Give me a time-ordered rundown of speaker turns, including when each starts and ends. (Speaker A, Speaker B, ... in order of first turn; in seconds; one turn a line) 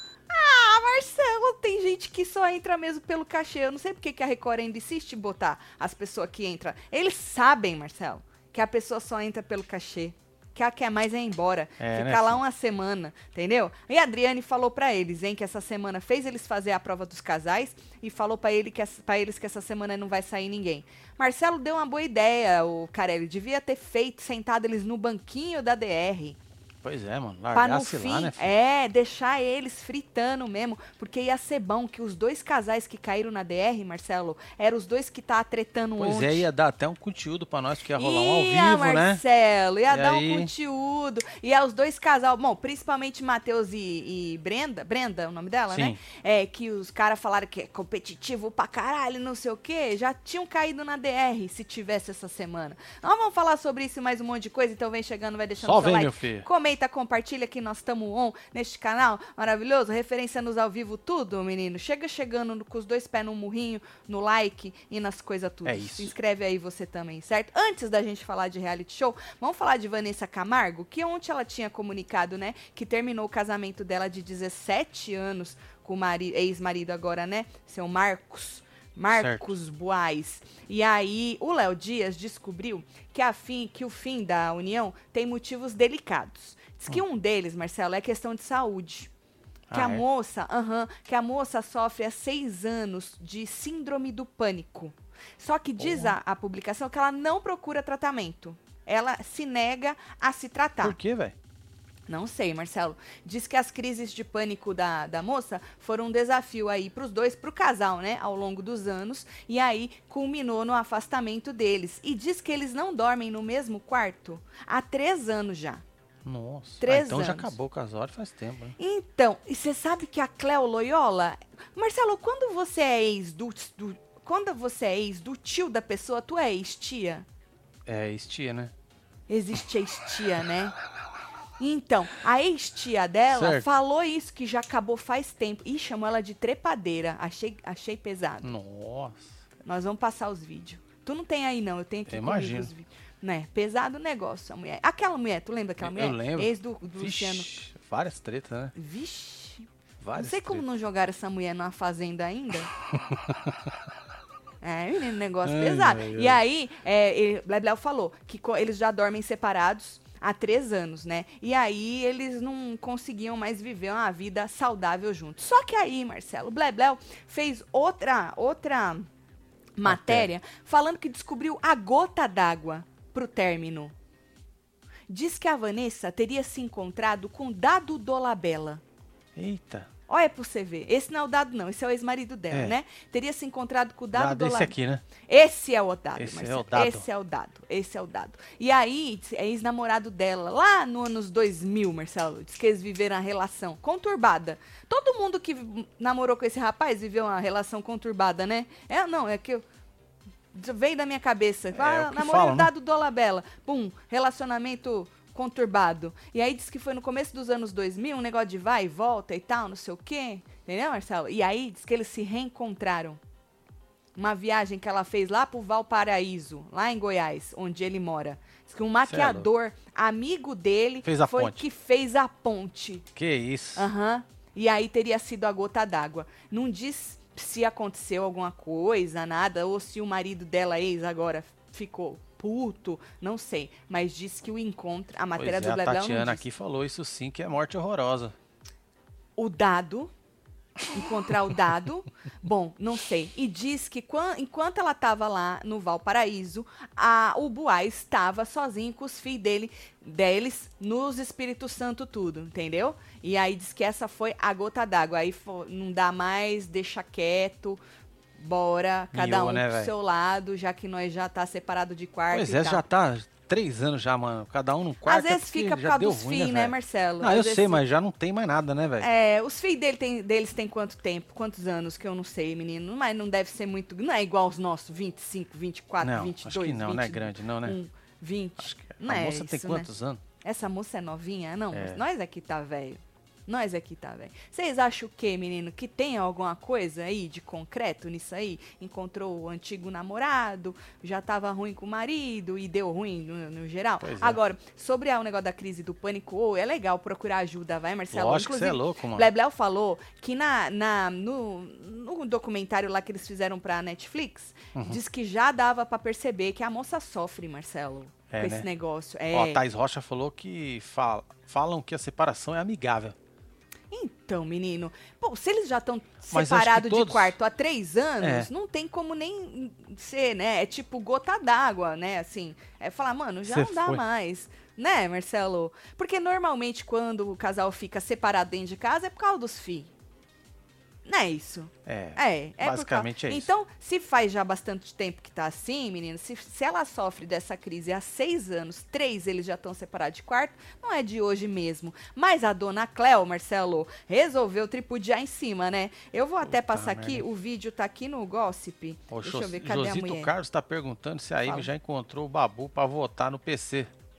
Speaker A: 0.3-26.4
Speaker B: 11.8-12.4
Speaker B: 26.8-28.5
Speaker A: 27.5-36.5
Speaker B: 36.0-39.2
Speaker A: 38.0-89.1
Speaker B: 39.9-40.5
Speaker B: 45.7-46.0
Speaker B: 55.6-56.5
Speaker B: 65.7-66.1
Speaker B: 79.1-79.5
Speaker B: 89.7-90.0
Speaker A: 89.7-101.0
Speaker B: 95.8-96.2
Speaker B: 100.8-101.4
Speaker A: 102.1-115.8
Speaker B: 116.2-118.8
Speaker A: 116.8-117.5
Speaker A: 118.8-127.3
Speaker B: 127.9-128.7
Speaker A: 129.3-130.8
Speaker A: 131.6-138.5
Speaker B: 133.3-133.7
Speaker B: 138.4-139.3
Speaker A: 139.7-147.5
Speaker B: 142.1-142.7
Speaker B: 145.8-148.7
Speaker A: 148.8-152.7
Speaker B: 150.0-150.7
Speaker B: 152.9-153.8
Speaker A: 154.6-169.1
Speaker B: 155.4-156.4
Speaker A: 169.8-173.9
Speaker B: 169.8-170.3
Speaker A: 175.1-178.8
Speaker B: 179.4-179.9
Speaker A: 180.1-199.7
Speaker B: 184.1-185.1
Speaker B: 186.2-187.1
Speaker A: 200.5-213.2
Speaker B: 201.7-202.7
Speaker A: 214.2-223.1
Speaker B: 219.1-219.5
Speaker B: 221.1-221.6
Speaker B: 223.2-223.8
Speaker A: 223.8-236.4
Speaker B: 235.4-238.3
Speaker A: 239.4-240.1
Speaker A: 240.9-257.8
Speaker A: 258.4-262.8
Speaker B: 259.1-259.9
Speaker B: 262.3-269.1
Speaker A: 265.1-267.8
Speaker A: 269.0-279.9
Speaker B: 276.0-277.8
Speaker B: 278.6-280.2
Speaker A: 280.4-309.6
Speaker B: 281.7-282.0
Speaker B: 294.0-294.4
Speaker B: 298.1-299.3
Speaker B: 304.8-305.0
Speaker B: 308.3-308.7
Speaker B: 309.3-313.2
Speaker A: 313.9-329.9
Speaker B: 316.3-317.4
Speaker B: 318.2-318.5
Speaker B: 323.4-324.0
Speaker A: 331.1-350.3
Speaker B: 331.9-333.5
Speaker B: 346.4-347.3
Speaker B: 349.1-353.9